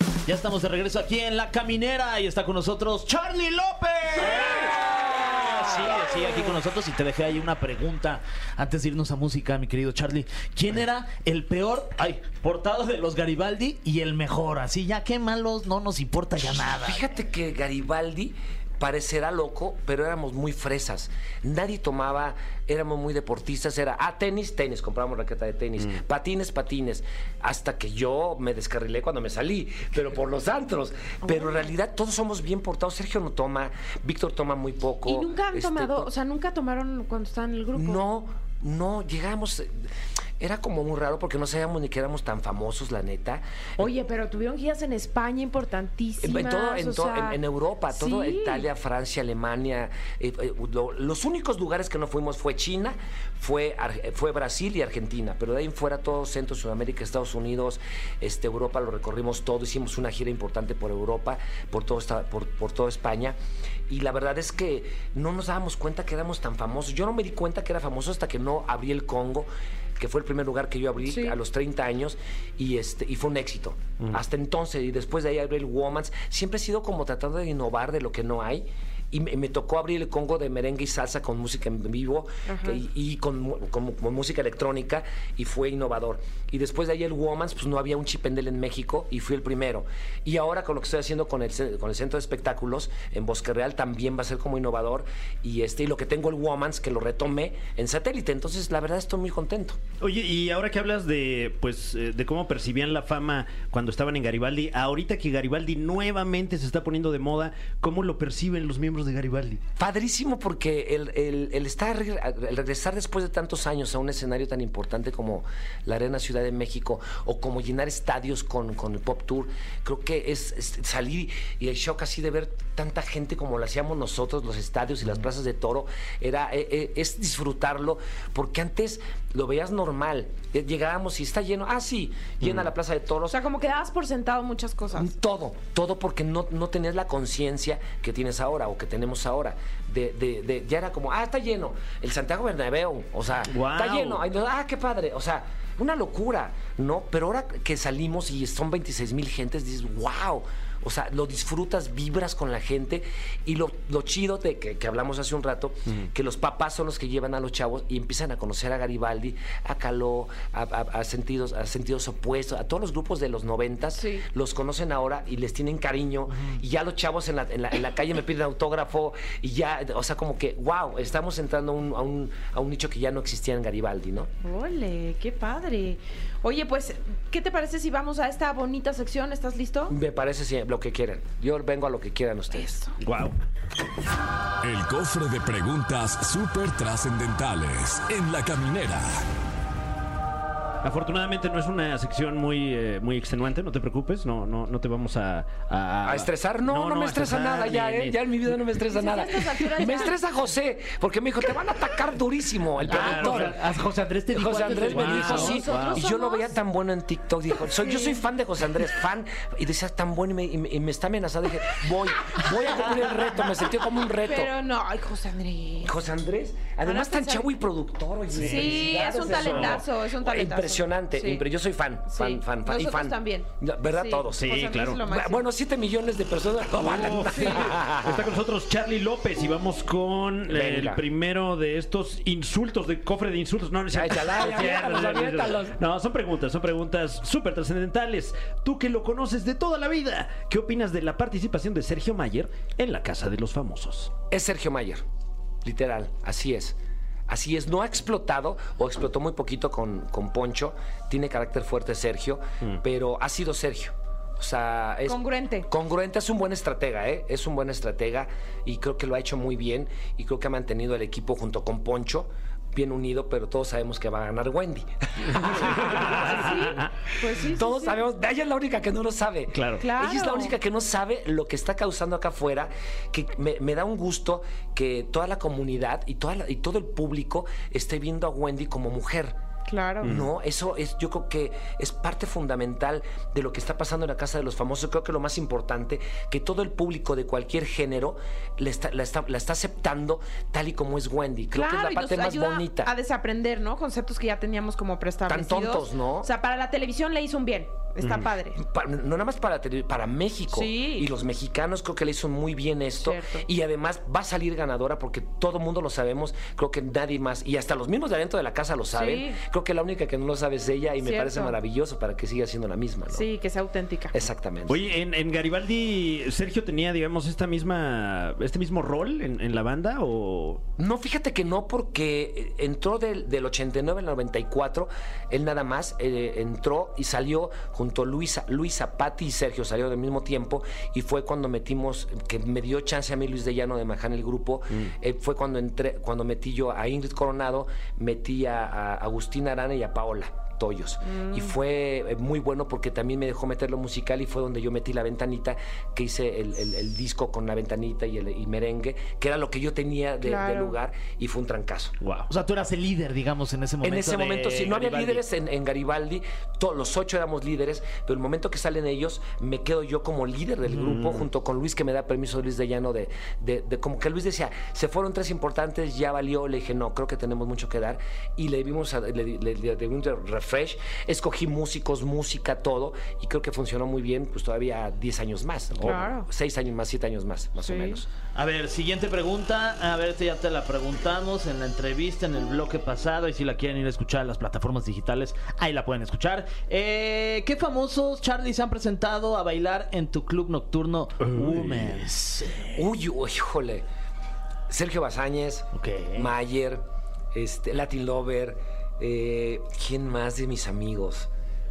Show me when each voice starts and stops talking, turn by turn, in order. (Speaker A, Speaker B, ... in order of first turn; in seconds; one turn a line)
Speaker A: 0.3-17.0
Speaker B: 16.7-36.1
Speaker C: 31.3-31.5
Speaker C: 35.1-38.0
Speaker B: 37.7-39.7
Speaker B: 40.4-43.9
Speaker C: 43.8-47.4
Speaker B: 46.2-63.4
Speaker C: 47.9-48.7
Speaker B: 63.9-99.8
Speaker C: 71.0-71.4
Speaker C: 82.5-82.8
Speaker D: 100.0-109.6
Speaker B: 109.8-133.4
Speaker C: 133.3-135.1
Speaker B: 134.9-174.3
Speaker D: 143.5-144.2
Speaker C: 163.9-164.2
Speaker A: 166.3-166.6
Speaker C: 174.4-179.9
Speaker B: 179.9-182.9
Speaker D: 183.0-183.4
Speaker E: 184.6-189.2
Speaker D: 190.8-198.6
Speaker B: 196.0-203.6
Speaker C: 198.9-200.2
Speaker D: 202.8-203.6
Speaker A: 202.9-206.0
Speaker B: 204.3-214.5
Speaker D: 204.9-205.6
Speaker C: 204.9-206.6
Speaker C: 207.8-208.2
Speaker C: 214.2-215.9
Speaker B: 215.8-228.3
Speaker C: 216.8-217.6
Speaker D: 218.3-218.7
Speaker C: 218.4-221.4
Speaker A: 218.4-218.9
Speaker D: 219.3-219.8
Speaker C: 222.1-225.4
Speaker D: 224.3-225.0
Speaker D: 226.8-244.1
Speaker C: 227.3-227.7
Speaker B: 230.5-231.1
Speaker B: 233.9-235.8
Speaker B: 244.3-245.0
Speaker B: 245.6-246.8
Speaker B: 247.3-266.8
Speaker C: 255.1-255.7
Speaker D: 265.5-266.9
Speaker C: 266.1-268.0
Speaker B: 267.4-279.4
Speaker D: 269.5-269.8
Speaker C: 269.8-270.6
Speaker C: 279.7-280.1
Speaker B: 280.0-292.9
Speaker C: 291.5-298.6
Speaker B: 295.3-296.3
Speaker B: 298.6-313.3
Speaker C: 300.5-301.1
Speaker C: 303.0-303.5
Speaker C: 308.9-309.4
Speaker C: 311.0-311.6
Speaker C: 313.1-314.2
Speaker B: 314.1-314.8
Speaker D: 314.7-320.6
Speaker B: 320.8-351.9
Speaker C: 341.0-341.5
Speaker C: 350.2-350.8
Speaker D: 352.0-352.3
Speaker A: 352.3-355.2
Speaker B: 353.8-378.1
Speaker D: 360.7-361.3
Speaker C: 375.8-376.3
Speaker C: 377.6-378.0
Speaker A: 378.4-392.9
Speaker D: 391.2-392.0
Speaker B: 392.8-393.9
Speaker B: 394.7-396.8
Speaker A: 395.8-396.3
Speaker B: 397.3-401.3